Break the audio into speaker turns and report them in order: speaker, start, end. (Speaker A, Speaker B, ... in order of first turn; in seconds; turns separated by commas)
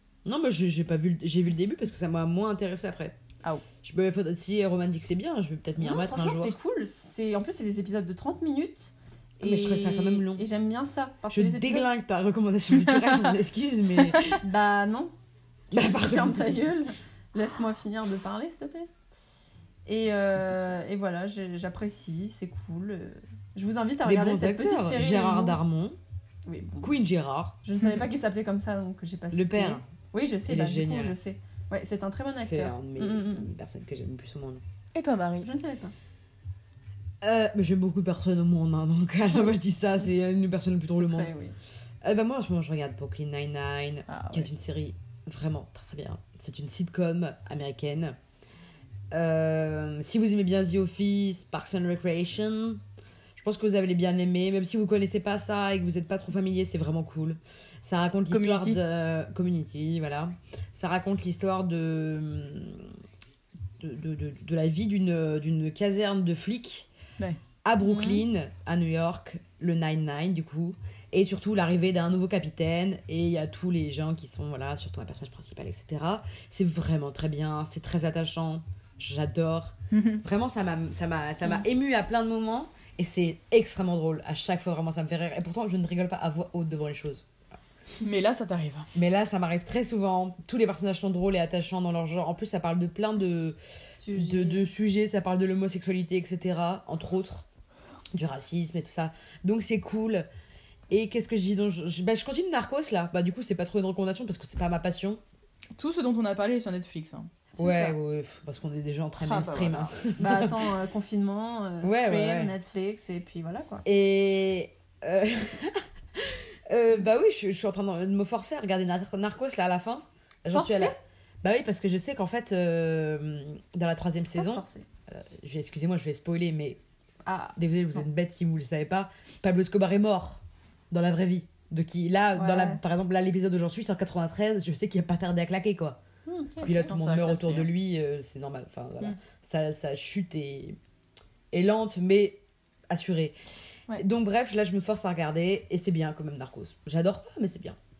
Speaker A: 0.2-3.1, Speaker A: 3.8-6.6, Speaker B: 5.8-11.9, Speaker A: 9.4-10.4, Speaker A: 11.3-14.4, Speaker C: 12.7-13.3, Speaker B: 14.2-15.1, Speaker B: 15.7-18.9, Speaker A: 15.7-16.7, Speaker B: 19.9-25.6, Speaker A: 24.0-26.0, Speaker B: 26.4-26.9, Speaker A: 26.8-27.6, Speaker B: 27.6-33.5, Speaker A: 29.3-29.8, Speaker A: 30.4-31.1, Speaker A: 32.4-34.6, Speaker C: 34.9-35.5, Speaker B: 35.4-35.9, Speaker A: 37.2-41.3, Speaker B: 40.9-41.5, Speaker A: 42.0-48.2, Speaker C: 44.1-44.5, Speaker A: 49.1-52.8, Speaker A: 53.4-63.0, Speaker C: 58.3-58.8, Speaker A: 63.8-66.9, Speaker A: 67.6-87.2, Speaker B: 67.8-68.2, Speaker C: 79.9-80.2, Speaker C: 88.0-88.9, Speaker A: 88.9-93.6, Speaker B: 94.0-94.6, Speaker A: 94.1-97.4, Speaker A: 98.1-100.3, Speaker A: 100.9-105.2, Speaker C: 105.8-108.0, Speaker A: 107.6-110.7, Speaker C: 109.2-109.9, Speaker B: 110.2-113.8, Speaker A: 111.8-112.5, Speaker A: 113.8-126.8, Speaker B: 120.5-121.0, Speaker B: 124.3-124.8, Speaker B: 127.2-128.0, Speaker A: 127.6-136.0, Speaker B: 132.3-132.8, Speaker B: 136.2-136.9, Speaker A: 136.6-140.8, Speaker C: 136.7-137.7, Speaker A: 141.5-143.4, Speaker A: 143.9-147.8